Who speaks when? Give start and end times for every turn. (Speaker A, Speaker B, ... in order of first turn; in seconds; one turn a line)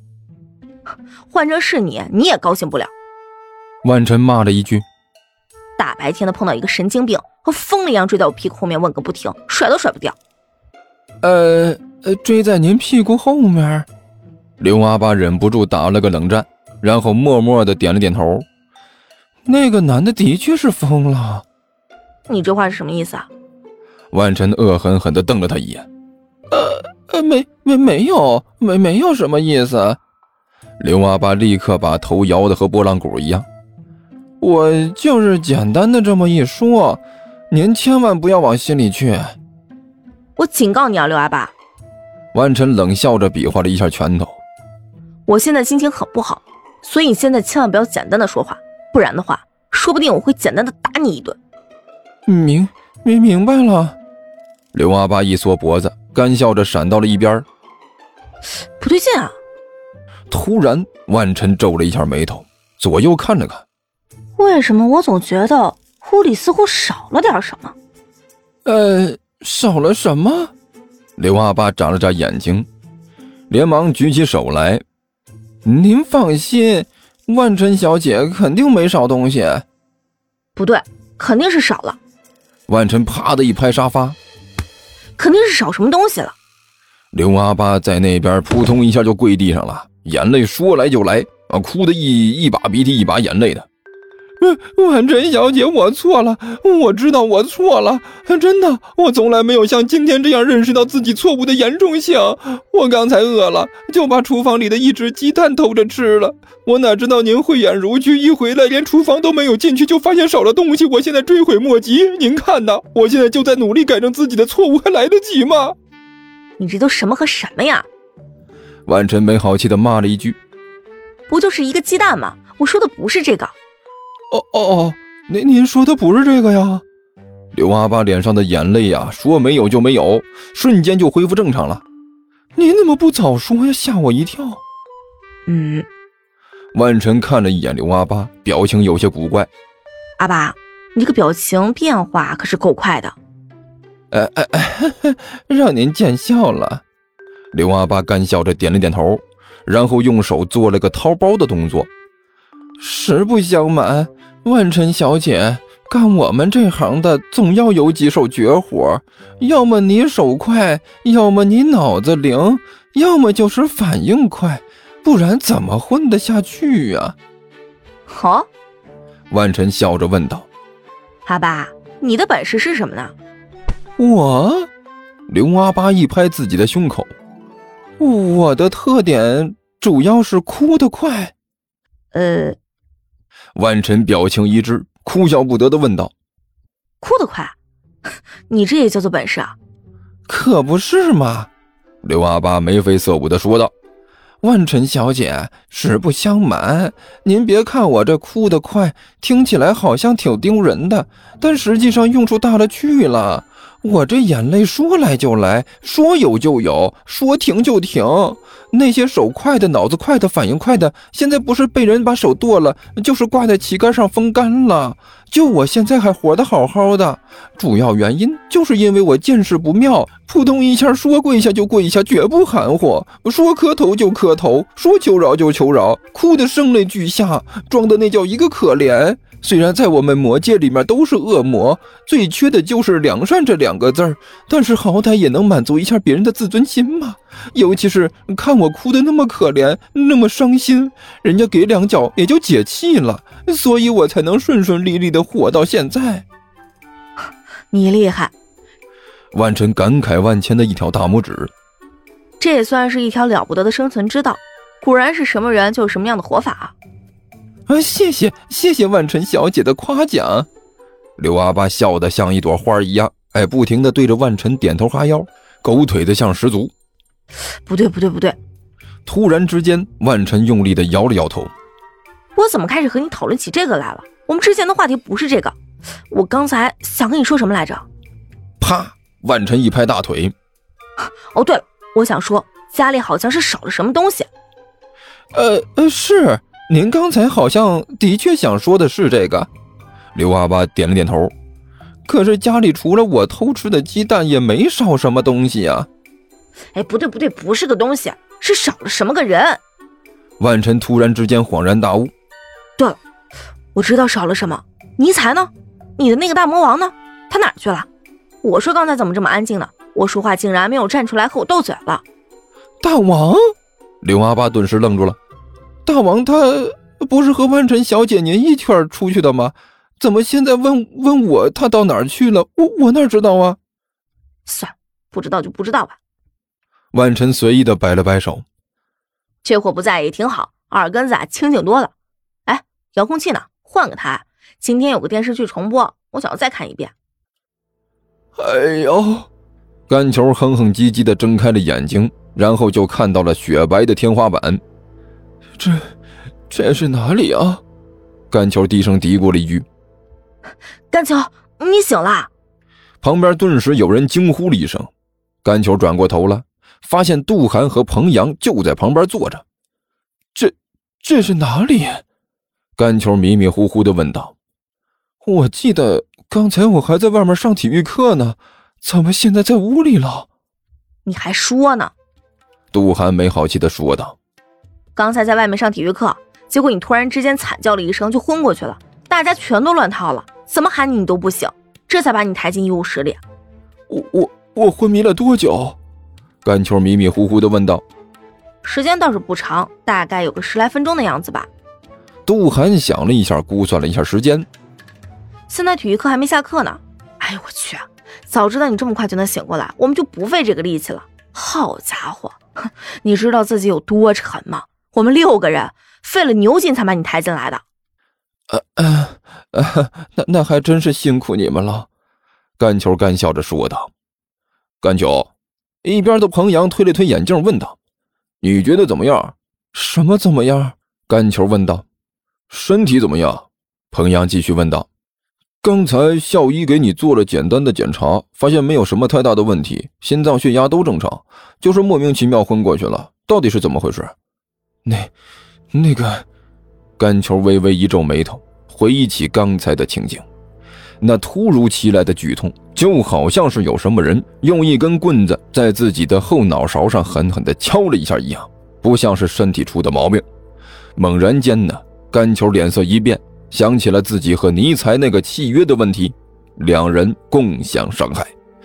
Speaker A: 1.3-2.9
Speaker B: 3.8-4.8
Speaker A: 5.8-10.2
Speaker B: 11.2-13.9
Speaker B: 14.6-18.4
Speaker B: 19.4-21.4
Speaker A: 22.3-23.3
Speaker B: 24.1-25.9
Speaker B: 26.5-30.0
Speaker B: 30.8-33.5
Speaker B: 34.4-39.4
Speaker A: 40.4-41.5
Speaker B: 42.3-44.4
Speaker A: 45.3-51.4
Speaker B: 52.2-54.0
Speaker B: 54.7-57.5
Speaker A: 58.8-59.4
Speaker B: 60.3-63.6
Speaker A: 64.4-67.7
Speaker B: 68.6-70.5
Speaker B: 71.2-72.7
Speaker B: 73.5-74.8
Speaker B: 75.6-79.6
Speaker A: 80.5-82.0
Speaker B: 82.7-84.2
Speaker A: 85.2-86.3
Speaker B: 87.1-93.7
Speaker B: 94.4-115.8
Speaker A: 116.6-117.9
Speaker B: 118.9-120.4
Speaker A: 121.3-123.5
Speaker B: 124.3-126.8
Speaker B: 127.5-131.8
Speaker B: 132.6-134.6
Speaker A: 135.5-135.8
Speaker B: 136.7-139.5
Speaker A: 140.2-143.2
Speaker B: 144.1-146.8
Speaker B: 147.5-151.9
Speaker B: 152.8-167.2
Speaker A: 168.1-168.5
Speaker B: 169.3-170.5
Speaker A: 171.2-173.1
Speaker B: 174.0-174.7
Speaker B: 175.3-177.1
Speaker B: 178.0-181.3
Speaker A: 182.1-182.6
Speaker B: 183.5-186.1
Speaker A: 187.0-187.6
Speaker A: 188.5-189.6
Speaker B: 190.3-191.5
Speaker B: 192.0-193.7
Speaker B: 194.4-246.2
Speaker A: 247.7-248.3
Speaker B: 249.3-251.5
Speaker A: 252.4-256.7
Speaker B: 257.7-260.5
Speaker B: 261.2-266.7
Speaker A: 267.6-268.4
Speaker B: 269.1-271.5
Speaker A: 272.4-275.6
Speaker A: 276.1-277.9
Speaker B: 278.6-280.3
Speaker A: 281.3-284.3
Speaker B: 285.3-289.5
Speaker B: 290.1-291.3
Speaker B: 292.1-295.9
Speaker A: 296.7-299.6
Speaker B: 300.4-302.1
Speaker A: 303.7-307.9
Speaker A: 308.4-312.0
Speaker B: 312.8-315.2
Speaker B: 315.9-323.6
Speaker A: 324.4-326.0
Speaker B: 326.9-328.4
Speaker A: 329.4-331.9
Speaker A: 332.4-336.9
Speaker B: 338.4-339.3
Speaker B: 339.9-344.6
Speaker B: 345.6-345.9
Speaker B: 346.5-347.6
Speaker B: 348.3-349.6
Speaker A: 350.9-352.3
Speaker B: 353.0-354.9
Speaker B: 355.4-359.4
Speaker B: 360.3-362.0
Speaker B: 362.8-364.3
Speaker B: 365.2-370.3
Speaker A: 371.0-371.9
Speaker B: 372.7-374.1
Speaker A: 374.9-383.2
Speaker B: 383.9-385.8
Speaker B: 386.4-387.8
Speaker A: 388.6-391.5
Speaker B: 392.2-394.5
Speaker A: 395.5-407.6
Speaker B: 408.5-411.9
Speaker B: 412.6-413.9
Speaker B: 414.8-415.3
Speaker B: 415.8-417.8
Speaker B: 418.4-421.8
Speaker B: 422.5-424.9
Speaker B: 425.6-434.1
Speaker B: 434.8-435.1
Speaker B: 435.7-436.2
Speaker B: 437.0-440.2
Speaker B: 441.0-450.2
Speaker B: 450.9-458.3